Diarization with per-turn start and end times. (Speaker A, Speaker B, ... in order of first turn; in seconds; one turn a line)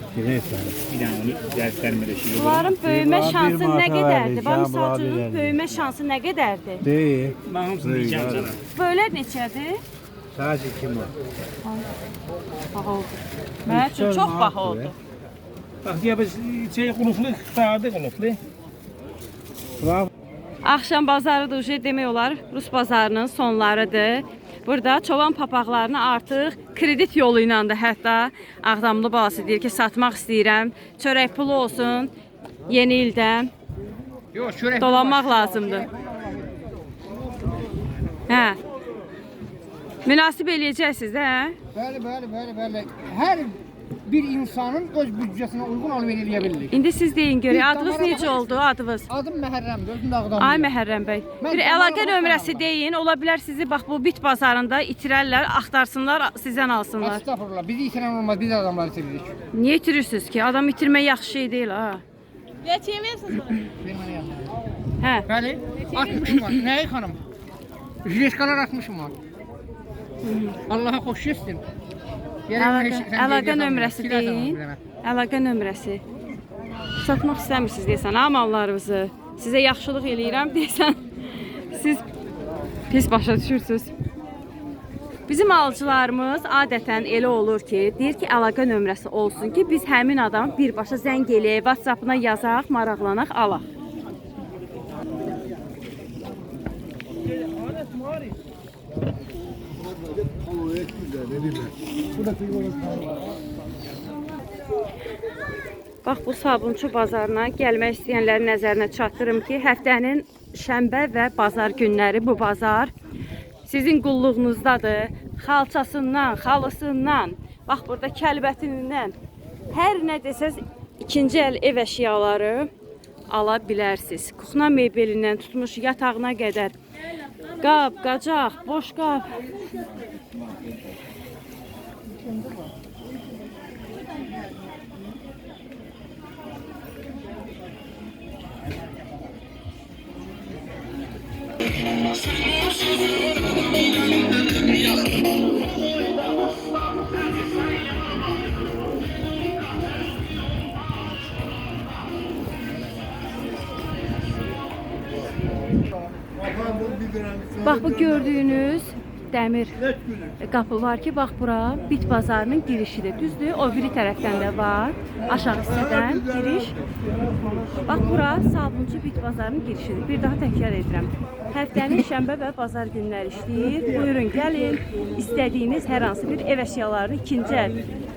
Speaker A: 0.1-0.8
Speaker B: 0.8-2.7
Speaker C: 2.3-6.8
Speaker A: 2.8-5.6
Speaker A: 6.8-8.5
Speaker B: 7.4-8.6
Speaker C: 8.7-9.8
Speaker A: 10.3-11.1
Speaker C: 12.7-14.9
Speaker A: 13.7-14.9
Speaker B: 15.8-18.4
Speaker A: 19.8-20.1
Speaker C: 20.6-32.1
Speaker C: 32.7-33.5
Speaker D: 34.3-36.5
Speaker C: 34.8-35.9
Speaker C: 38.3-38.6
Speaker C: 40.0-41.6
Speaker D: 41.7-46.8
Speaker C: 46.7-49.1
Speaker D: 47.5-48.5
Speaker D: 49.1-50.7
Speaker C: 50.4-57.2
Speaker D: 51.4-52.7
Speaker D: 57.0-59.3
Speaker C: 59.5-62.0
Speaker C: 62.6-63.6
Speaker D: 63.8-64.5
Speaker D: 65.3-67.2
Speaker D: 68.0-69.1
Speaker C: 70.2-70.6
Speaker D: 70.7-71.6
Speaker D: 72.5-74.8
Speaker C: 72.6-76.0
Speaker C: 77.0-82.0
Speaker C: 82.9-83.9
Speaker C: 85.3-93.6
Speaker C: 106.0-112.9
Speaker C: 113.7-119.1
Speaker C: 119.7-122.7
Speaker C: 123.3-126.7
Speaker C: 127.6-129.3
Speaker C: 157.5-159.8
Speaker C: 160.4-166.7
Speaker C: 167.8-177.8